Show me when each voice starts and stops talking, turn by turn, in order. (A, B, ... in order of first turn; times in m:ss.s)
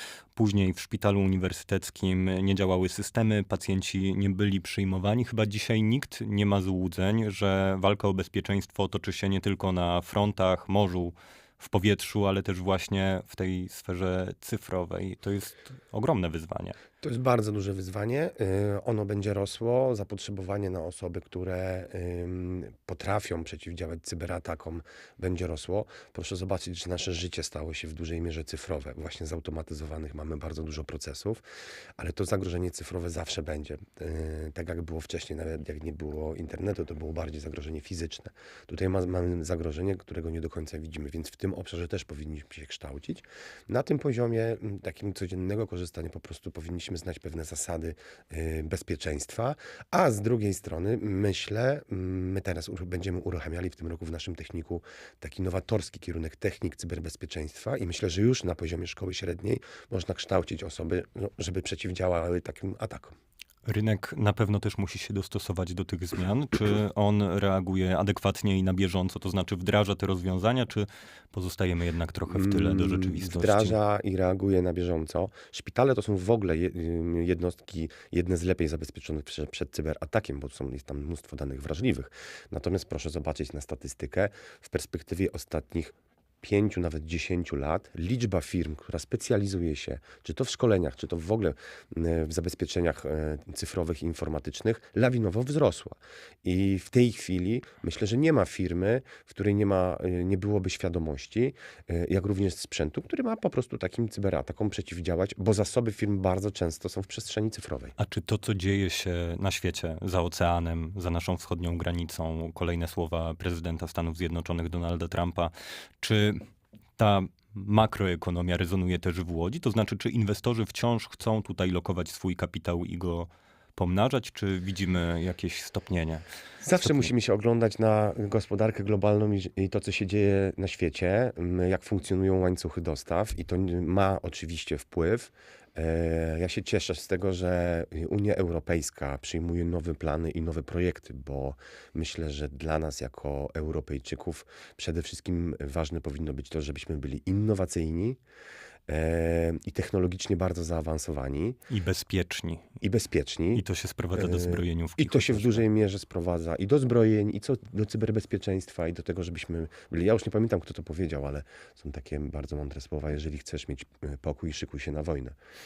0:00.4-0:16.8 A
0:17.0-0:31.4 B
0:32.0-1:03.2 B
1:03.6-1:13.8 A
1:12.3-1:47.9 B
1:48.0-1:56.4 A
1:57.0-2:06.2 A
2:06.6-2:28.2 B
2:06.8-2:07.1 A
2:28.9-2:31.6 B
2:31.7-2:32.6 A
2:32.8-2:45.4 B
2:33.5-2:35.6 A